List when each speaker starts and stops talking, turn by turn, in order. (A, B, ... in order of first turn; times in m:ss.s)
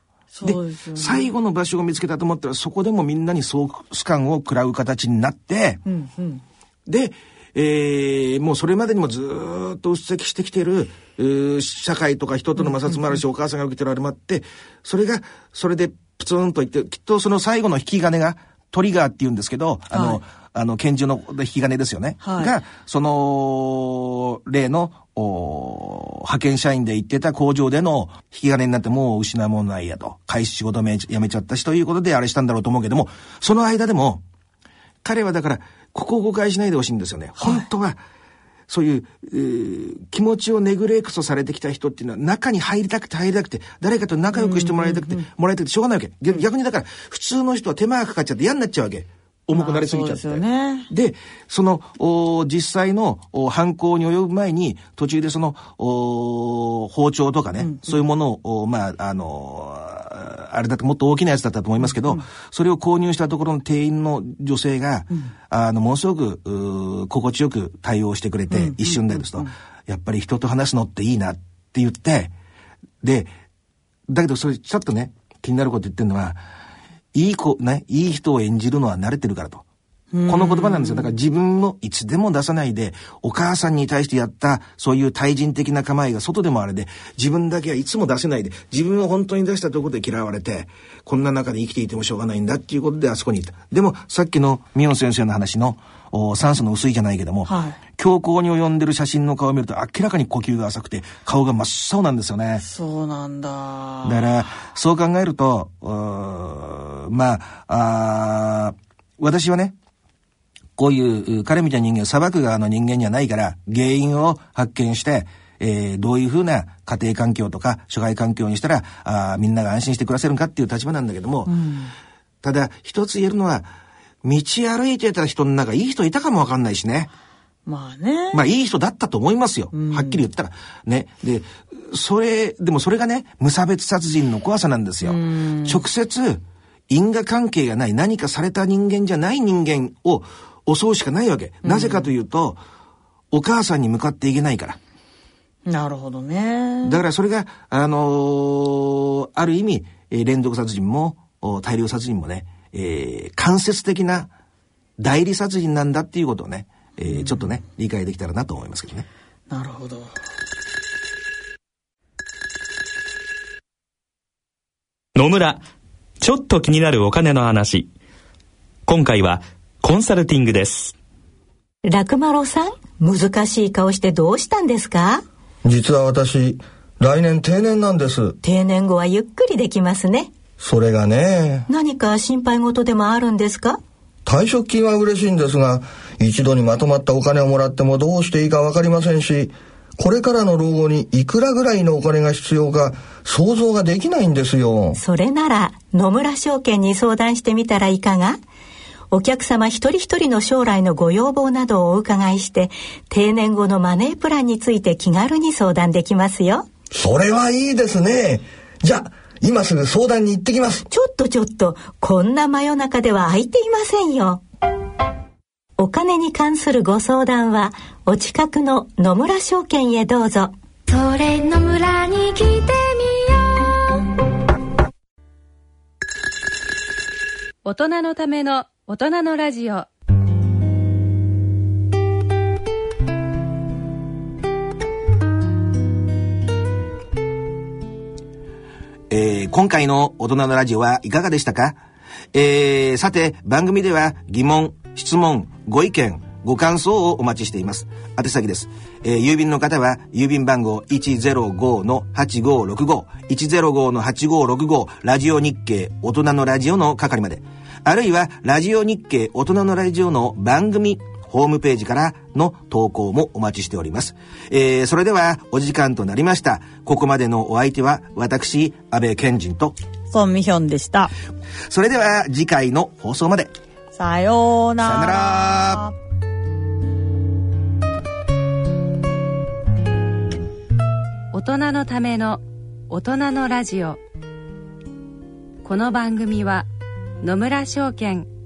0:00.3-0:01.3 A
0:00.4-0:05.8 B
0:05.8-0:06.4 A
0:06.9-0:34.2 B
0:12.6-0:13.2 A
0:19.9-0:20.2 A
0:22.2-0:22.5 A
0:35.0-0:38.0 B
0:37.4-0:37.7 A
0:38.7-1:12.3 B
0:44.3-0:45.3 A
0:49.5-0:50.9 A
0:57.6-0:58.0 A
1:01.8-1:02.2 A
1:08.5-1:09.5 A
1:13.0-1:13.3 B
1:14.1-1:16.4 B
1:17.1-1:19.6 B
1:20.1-1:21.1 A
1:20.2-1:42.6 B
1:37.4-1:37.8 A
1:42.6-1:44.3 A
1:44.0-1:49.7 B
1:50.8-2:01.5 B
2:01.5-2:01.9 A
2:02.4-2:03.7 B
2:04.2-2:07.1 B
2:07.6-2:08.4 A
2:08.3-2:22.6 B
2:09.7-2:10.2 A
2:15.0-2:15.8 A
2:21.6-2:22.1 A
2:23.3-2:24.8 B
2:25.7-2:27.0 A
2:26.8-2:34.3 B
2:35.0-2:39.1 B
2:37.0-2:37.5 A
2:39.5-2:40.1 A
2:45.2-2:45.6 C
2:46.2-2:47.9 C
2:48.8-2:50.9 C
2:51.8-2:55.2 D
2:55.6-2:58.4 E
2:58.4-3:00.3 D
3:00.6-3:01.7 E
3:01.7-3:03.8 D
3:04.2-3:15.0 E
3:15.0-3:18.4 D
3:19.1-3:26.7 D
3:26.9-3:30.9 E
3:30.9-3:34.4 D
3:35.8-3:40.5 D
3:40.9-3:44.1 F
3:47.6-3:49.9 G
3:59.1-4:01.8 B
4:02.3-4:29.8 B
4:30.1-4:31.1 A
4:31.7-4:33.5 B
4:34.0-4:35.9 A
4:34.8-4:35.9 B
4:41.3-4:44.0 G
4:45.6-4:46.7 G
4:47.2-4:48.3 G